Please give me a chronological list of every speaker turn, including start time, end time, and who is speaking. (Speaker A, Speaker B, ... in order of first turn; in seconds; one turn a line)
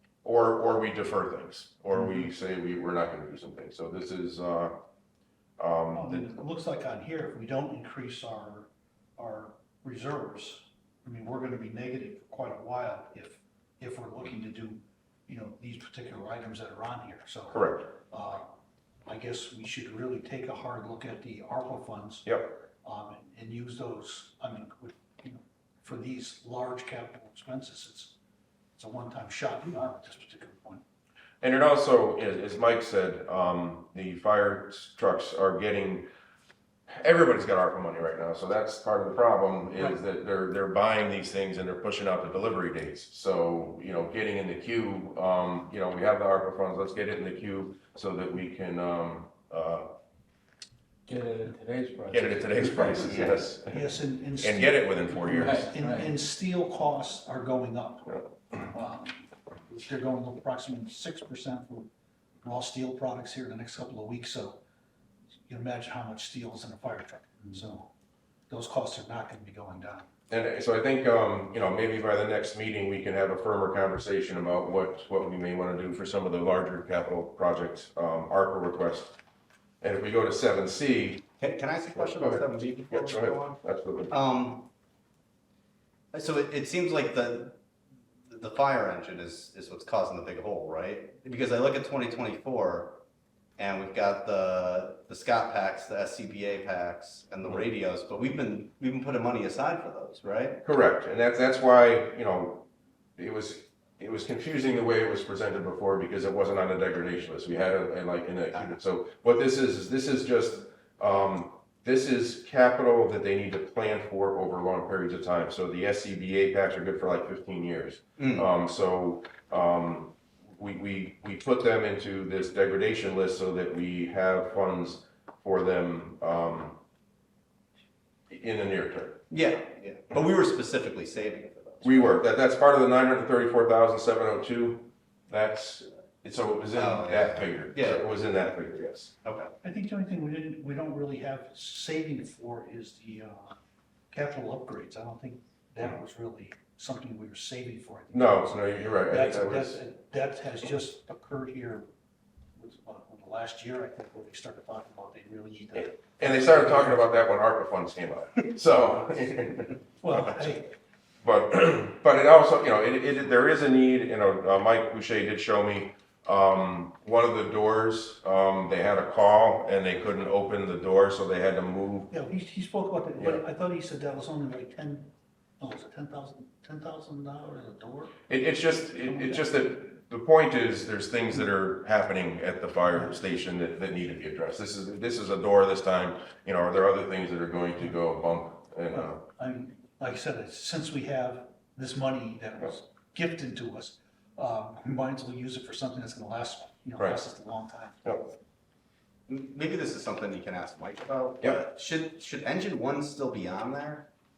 Speaker A: 0.2-4.8
Speaker A: 5.6-6.3
Speaker B: 5.9-18.5
Speaker A: 17.5-17.9
Speaker B: 19.1-22.3
Speaker A: 22.2-22.6
Speaker B: 22.8-28.1
Speaker B: 28.8-30.8
Speaker A: 31.4-36.1
Speaker A: 36.9-49.9
Speaker C: 51.1-53.3
Speaker A: 52.1-55.7
Speaker B: 53.6-61.9
Speaker C: 55.3-56.1
Speaker B: 62.4-64.6
Speaker B: 65.5-67.9
Speaker B: 68.5-70.1
Speaker A: 70.3-79.2
Speaker A: 79.8-81.3
Speaker D: 81.4-83.6
Speaker A: 82.0-84.1
Speaker D: 84.1-84.7
Speaker D: 86.1-87.6
Speaker D: 88.3-93.0
Speaker D: 93.6-100.6
Speaker A: 100.6-102.7
Speaker A: 103.2-126.8
Speaker D: 118.2-118.5
Speaker A: 128.3-129.2
Speaker D: 129.3-132.2
Speaker A: 131.8-139.1
Speaker D: 136.7-138.1
Speaker D: 139.2-139.6
Speaker B: 139.6-143.6
Speaker B: 144.1-151.8
Speaker A: 148.1-149.8
Speaker B: 152.6-157.1
Speaker A: 155.8-160.6
Speaker B: 160.0-160.7
Speaker A: 161.2-172.1
Speaker B: 172.1-178.1
Speaker A: 178.3-189.2
Speaker B: 179.1-179.4
Speaker B: 188.9-198.0
Speaker A: 198.0-198.3
Speaker D: 199.3-204.1